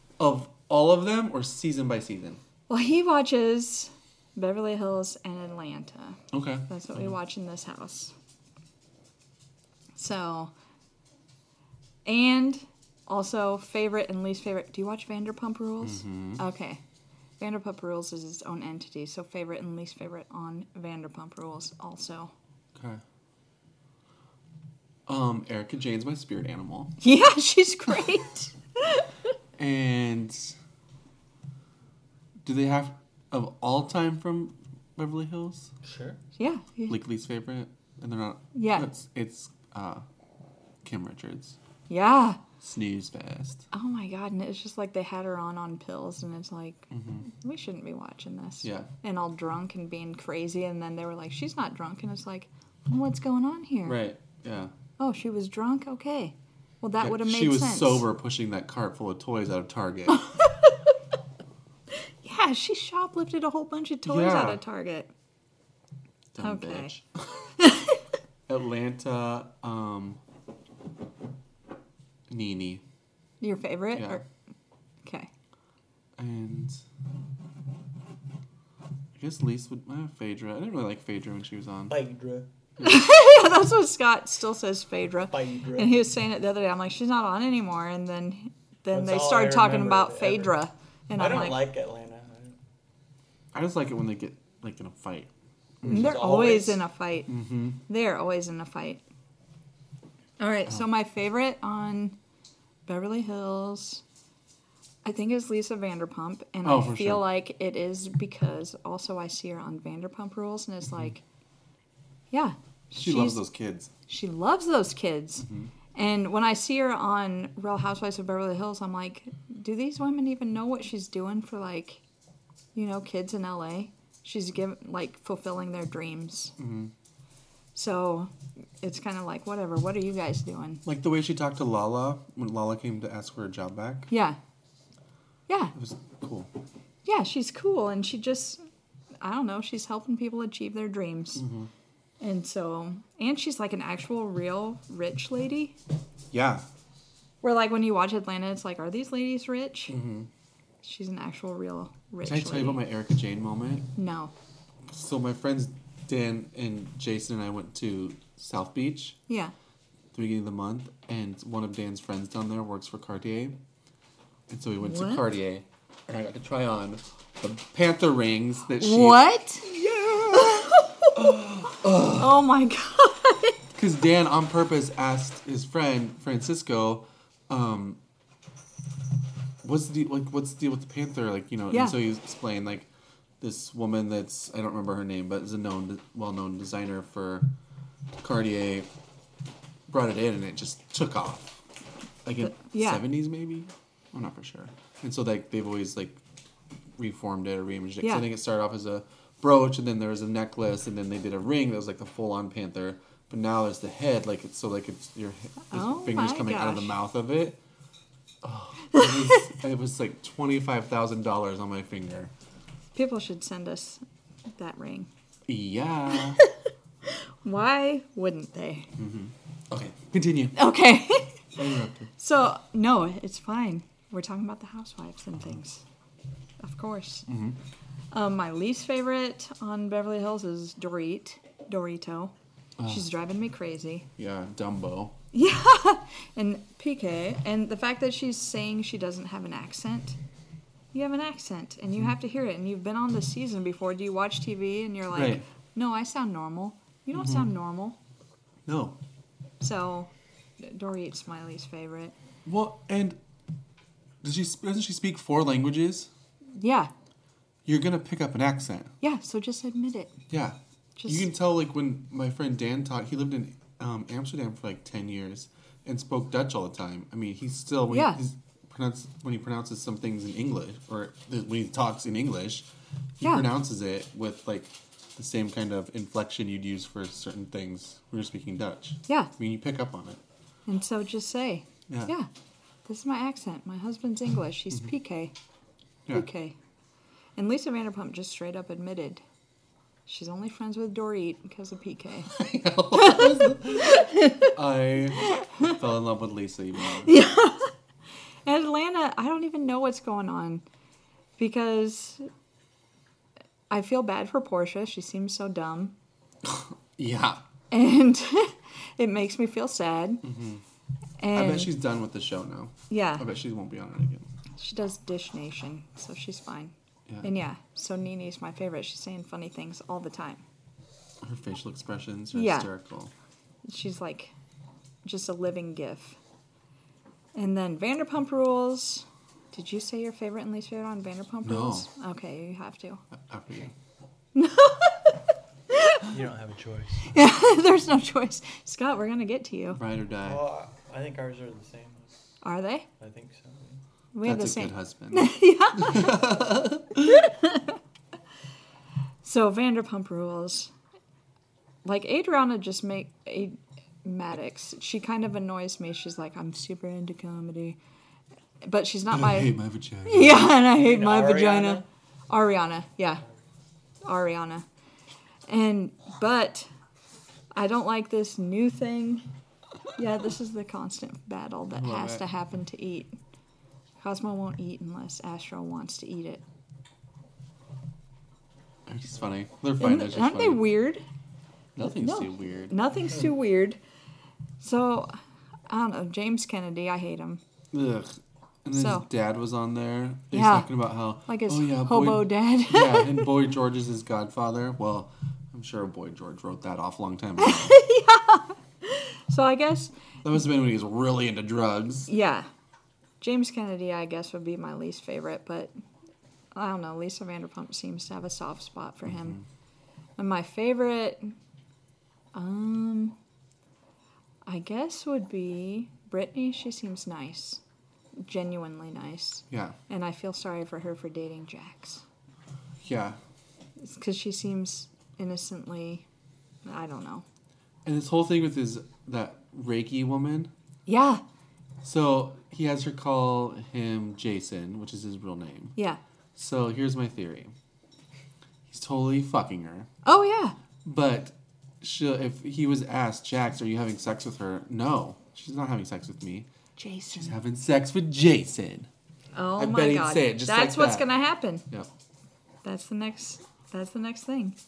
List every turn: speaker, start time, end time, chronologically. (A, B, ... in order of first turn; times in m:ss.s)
0:00.2-0:02.4 A
0:02.7-0:08.1 B
0:06.3-0:07.1 A
0:10.0-0:10.5 B
0:12.0-0:16.8 B
0:15.8-0:16.4 A
0:17.4-0:22.3 B
0:22.7-0:23.0 A
0:25.1-0:27.0 A
0:27.0-0:29.0 B
0:29.6-0:30.6 A
0:32.4-0:35.7 A
0:35.8-0:36.2 C
0:36.4-0:37.0 B
0:36.9-0:40.0 A
0:38.5-0:38.9 B
0:40.8-0:41.6 A
0:41.9-0:42.4 B
0:42.6-0:43.6 A
0:43.7-0:54.0 B
0:46.9-0:47.2 A
0:48.6-0:48.9 A
0:53.8-0:54.7 A
0:55.0-0:58.0 B
0:57.0-1:00.2 A
1:02.2-1:05.1 B
1:04.0-1:04.6 A
1:06.3-1:07.1 A
1:06.4-1:06.9 B
1:07.6-1:08.0 B
1:08.5-1:10.2 A
1:12.3-1:12.8 A
1:13.4-1:14.2 B
1:13.9-1:14.2 A
1:15.0-1:15.3 B
1:16.2-1:16.8 A
1:19.2-1:22.0 A
1:21.9-1:22.5 C
1:22.8-1:31.6 B
1:25.3-1:26.0 C
1:28.9-1:30.6 C
1:31.1-1:32.6 C
1:33.5-1:35.3 A
1:35.8-1:36.2 A
1:35.8-1:36.8 C
1:35.8-1:37.3 B
1:37.3-1:37.8 A
1:37.8-1:39.0 B
1:40.4-1:42.2 B
1:42.8-1:44.0 B
1:45.0-1:51.2 B
1:46.6-1:47.2 A
1:52.3-1:53.4 B
1:52.9-1:53.9 A
1:54.1-2:02.0 B
1:55.4-1:55.7 A
2:02.7-2:06.5 B
2:06.6-2:06.9 A
2:07.7-2:10.8 B
2:10.8-2:14.1 A
2:14.1-2:14.4 B
2:15.5-2:15.7 B
2:15.7-2:16.5 A
2:17.0-2:18.6 B
2:19.2-2:21.4 B
2:21.4-2:21.7 A
2:22.2-2:25.8 B
2:26.3-2:26.6 A
2:27.4-2:29.9 B
2:29.9-2:30.3 A
2:30.8-2:32.8 B
2:32.2-2:33.9 A
2:34.0-2:34.3 B
2:34.9-2:39.2 A
2:40.1-2:43.6 A
2:44.5-2:52.4 A
2:44.8-2:45.2 B
2:48.8-2:49.7 B
2:50.3-2:51.2 B
2:52.1-2:53.6 B
2:53.7-2:58.0 A
2:59.6-3:02.9 A
3:01.7-3:02.0 B
3:03.4-3:07.5 A
3:08.2-3:08.9 A
3:09.9-3:11.6 A
3:12.2-3:16.2 A
3:12.4-3:13.0 B
3:17.0-3:27.6 A
3:25.7-3:27.0 B
3:28.4-3:32.3 A
3:32.9-3:34.0 B
3:34.6-3:35.1 B
3:35.5-3:36.4 A
3:37.1-3:38.9 B
3:39.0-3:40.6 A
3:40.5-3:41.4 B
3:41.6-3:42.1 A
3:42.2-3:45.8 B
3:46.6-3:47.3 B
3:47.3-3:47.6 A
3:48.1-3:52.3 B
3:52.8-3:53.0 A
3:52.8-3:54.1 B
3:54.2-3:55.2 A
3:55.3-4:00.2 B
4:00.9-4:08.0 B
4:05.1-4:05.4 A
4:07.1-4:07.5 A
4:08.6-4:09.0 A
4:09.6-4:12.1 B
4:12.4-4:13.2 A
4:14.2-4:16.1 A
4:16.6-4:16.9 B
4:17.6-4:18.9 A
4:19.0-4:20.2 B
4:20.3-4:32.7 A
4:21.0-4:21.3 B
4:27.9-4:28.2 B
4:33.2-4:40.2 A
4:40.7-4:42.3 B
4:42.8-4:45.3 B
4:46.1-4:46.6 B
4:47.4-4:49.2 B
4:50.1-4:52.3 B
4:52.3-4:57.1 A
4:52.9-4:54.5 B
4:57.0-4:57.7 B
4:58.4-5:00.6 B
5:01.4-5:02.3 B
5:03.7-5:05.9 B
5:06.4-5:07.4 A
5:07.7-5:10.2 B
5:10.2-5:10.6 A
5:11.2-5:11.7 B
5:11.3-5:14.3 A
5:12.9-5:13.2 B
5:14.6-5:20.4 B
5:21.2-5:23.1 A
5:22.3-5:22.7 B
5:23.6-5:24.3 B
5:25.0-5:26.2 B
5:27.3-5:33.0 B
5:31.4-5:31.9 A
5:33.1-5:33.7 A
5:34.3-5:35.1 B
5:35.7-5:36.0 B
5:36.1-5:37.1 C
5:37.1-5:39.8 B
5:39.7-5:40.4 A
5:40.2-5:42.1 C
5:42.4-5:42.8 B
5:43.0-5:43.8 C
5:44.1-5:46.2 B
5:44.2-5:47.2 A
5:47.0-5:47.8 B
5:49.2-5:50.7 B
5:51.8-5:57.8 B
5:58.6-5:59.5 B
5:59.1-6:00.6 A
6:00.0-6:03.2 B
6:00.7-6:01.8 C
6:04.0-6:04.6 B
6:05.5-6:06.7 B
6:07.5-6:09.2 B
6:10.0-6:13.1 B
6:11.7-6:12.2 A
6:14.0-6:16.4 B
6:18.9-6:20.7 A
6:19.8-6:21.0 B
6:21.8-6:22.8 A
6:22.0-6:23.8 B
6:24.6-6:25.2 B
6:25.7-6:27.4 B
6:27.7-6:37.8 A
6:28.7-6:29.0 B
6:30.3-6:33.3 B
6:37.4-6:39.9 B
6:40.2-6:42.1 A
6:42.1-6:42.5 B
6:43.2-6:45.7 B
6:46.5-6:49.4 B
6:49.1-6:49.4 A
6:50.2-6:51.3 B
6:52.3-6:53.2 B
6:54.4-6:57.6 B
6:58.2-7:02.0 B
6:59.5-6:59.8 A
7:02.8-7:03.2 A
7:03.8-7:06.0 B
7:06.6-7:07.2 B
7:07.8-7:10.5 A
7:10.8-7:11.2 B
7:11.8-7:15.8 A
7:16.4-7:17.5 A
7:18.7-7:19.9 A
7:20.0-7:20.6 B
7:20.8-7:26.5 A
7:26.8-7:27.3 B
7:27.1-7:28.9 A
7:29.3-7:31.6 B
7:29.6-7:31.1 A
7:32.6-7:34.6 B